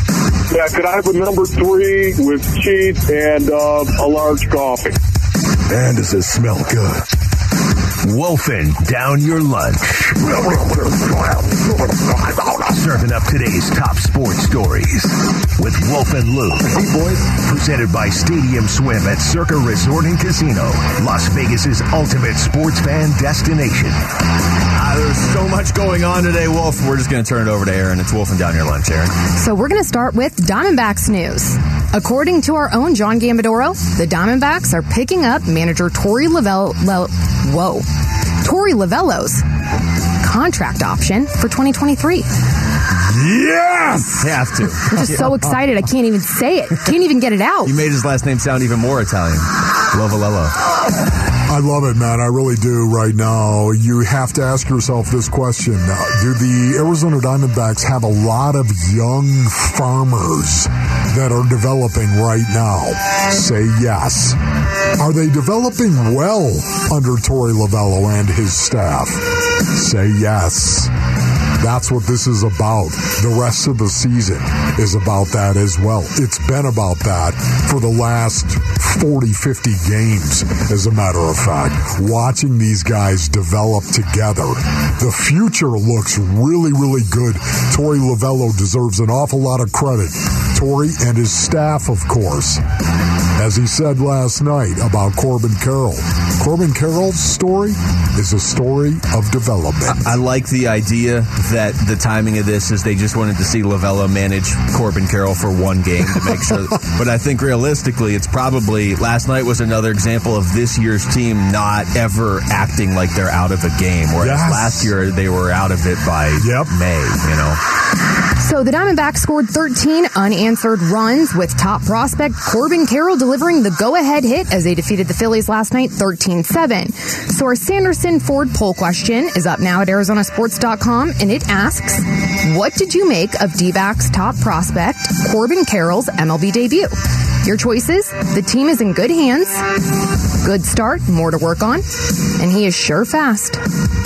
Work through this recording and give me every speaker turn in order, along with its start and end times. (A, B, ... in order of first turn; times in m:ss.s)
0:00.5-0:05.0 A
0:05.6-0:07.1 B
0:08.0-0:24.0 B
0:24.7-0:29.1 C
0:29.4-0:37.8 D
0:38.4-0:39.4 D
0:40.2-0:42.3 D
0:43.0-0:45.6 E
0:44.2-0:45.2 C
0:44.9-0:47.7 D
0:47.6-0:50.6 C
0:51.5-1:04.4 E
1:04.9-1:10.9 E
1:11.6-1:32.6 E
1:33.4-1:40.2 E
1:39.9-1:57.6 C
1:54.2-1:54.9 E
1:56.4-1:56.7 E
1:58.4-2:19.6 D
2:20.4-2:21.8 D
2:22.4-2:23.6 D